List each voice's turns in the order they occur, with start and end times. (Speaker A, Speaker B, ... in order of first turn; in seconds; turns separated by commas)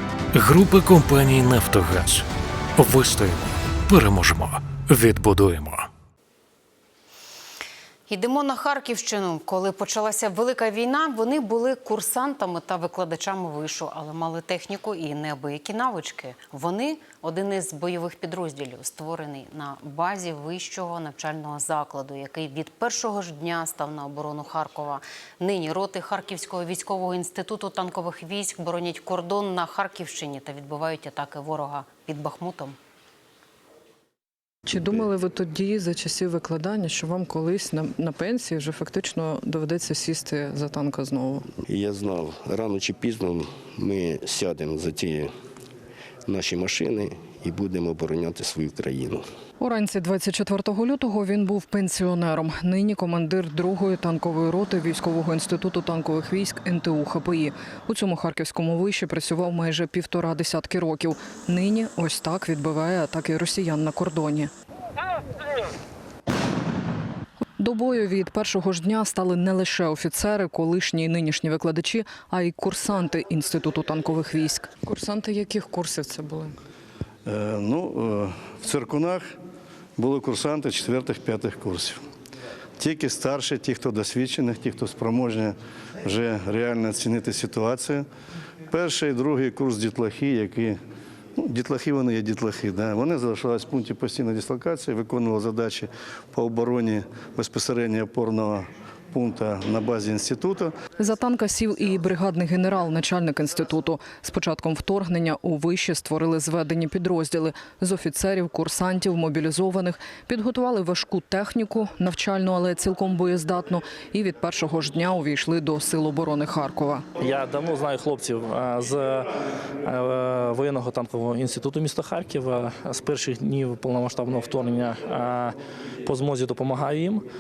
Speaker A: 0.3-2.3, Speaker A: 2.8-5.9, Speaker B: 8.1-32.8, Speaker C: 34.7-41.5, Speaker D: 41.7-45.3, Speaker D: 46.3-49.2, Speaker C: 49.6-64.5, Speaker C: 67.6-76.6, Speaker E: 77.3-79.2, Speaker E: 80.0-82.0, Speaker E: 82.8-88.0, Speaker E: 88.7-90.8, Speaker E: 91.4-100.7, Speaker C: 101.0-117.0, Speaker F: 117.2-119.3, Speaker F: 119.8-127.2